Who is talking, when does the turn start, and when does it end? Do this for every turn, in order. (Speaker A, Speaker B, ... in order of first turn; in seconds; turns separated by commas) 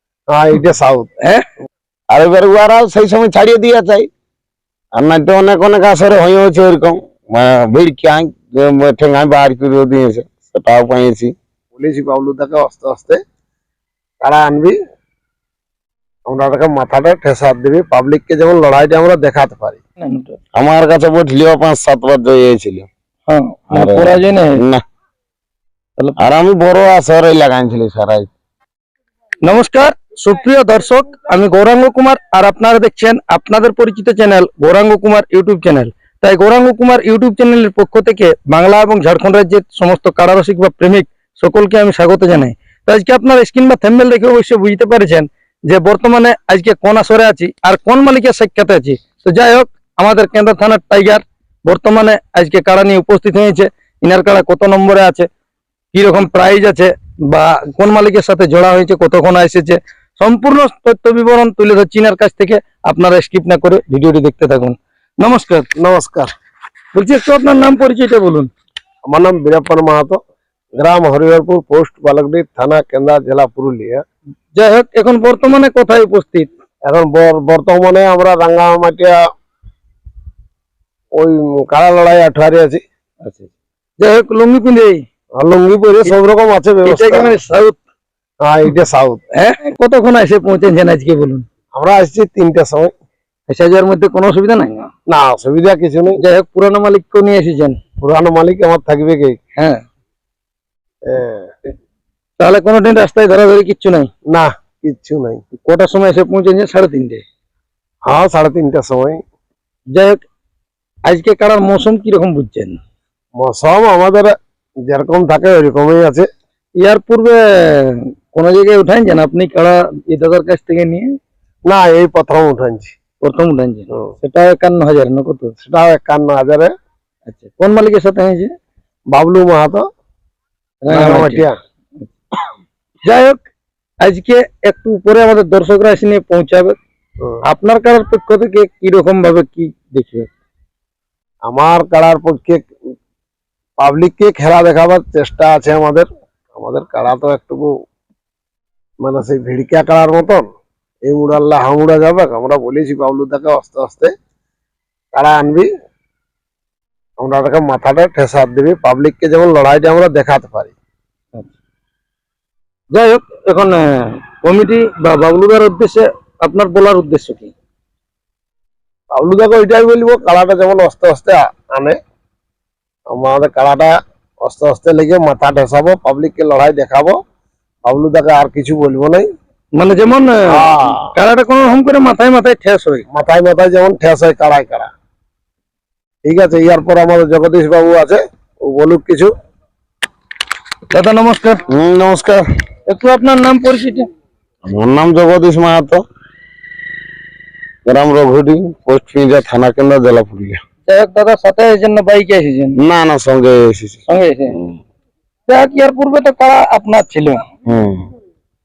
Speaker A: 0.3-1.1, Speaker B: 2.1-4.1, Speaker B: 5.0-11.3, Speaker A: 11.8-13.2, Speaker A: 14.2-14.8, Speaker A: 16.3-19.8, Speaker C: 20.0-20.4, Speaker B: 20.6-22.9, Speaker C: 23.3-24.6, Speaker B: 23.7-24.8, Speaker B: 26.2-28.3, Speaker C: 29.4-55.3, Speaker C: 55.9-65.7, Speaker A: 65.8-66.3, Speaker C: 66.9-68.5, Speaker A: 69.1-70.2, Speaker A: 70.8-74.0, Speaker C: 74.6-76.5, Speaker A: 76.9-79.2, Speaker A: 81.2-82.8, Speaker C: 83.2-85.0, Speaker A: 85.4-87.4, Speaker C: 86.8-87.8, Speaker A: 88.4-89.2, Speaker C: 89.4-91.5, Speaker A: 91.8-92.9, Speaker C: 93.5-94.9, Speaker A: 95.1-96.2, Speaker C: 96.2-97.8, Speaker A: 98.0-99.4, Speaker A: 101.1-101.5, Speaker C: 102.4-104.1, Speaker A: 104.3-105.4, Speaker C: 105.7-107.2, Speaker A: 108.0-109.2, Speaker C: 109.9-110.2, Speaker C: 111.1-112.8, Speaker A: 113.4-114.3, Speaker A: 114.9-116.3, Speaker C: 116.8-121.1, Speaker A: 121.7-122.9, Speaker C: 123.2-125.5, Speaker A: 125.6-126.7, Speaker C: 127.3-128.5, Speaker A: 129.1-129.9, Speaker C: 130.9-131.4, Speaker A: 130.9-131.6, Speaker C: 133.1-133.4, Speaker C: 134.0-136.8, Speaker C: 137.5-140.3, Speaker A: 141.4-142.7, Speaker A: 143.8-147.7, Speaker A: 149.0-150.5, Speaker A: 151.1-154.1, Speaker A: 155.1-155.7, Speaker A: 157.2-160.8, Speaker C: 162.9-167.5, Speaker A: 169.2-172.0, Speaker A: 173.1-177.2, Speaker A: 177.9-179.3, Speaker C: 179.8-183.1, Speaker A: 180.5-181.1, Speaker A: 183.1-184.9, Speaker A: 186.2-189.3, Speaker C: 190.9-191.7, Speaker B: 191.7-192.4, Speaker C: 192.9-194.1, Speaker B: 194.7-196.0, Speaker B: 197.9-200.6, Speaker C: 200.9-202.8, Speaker B: 202.8-204.0, Speaker C: 204.1-204.6, Speaker C: 205.5-207.5, Speaker B: 207.7-208.1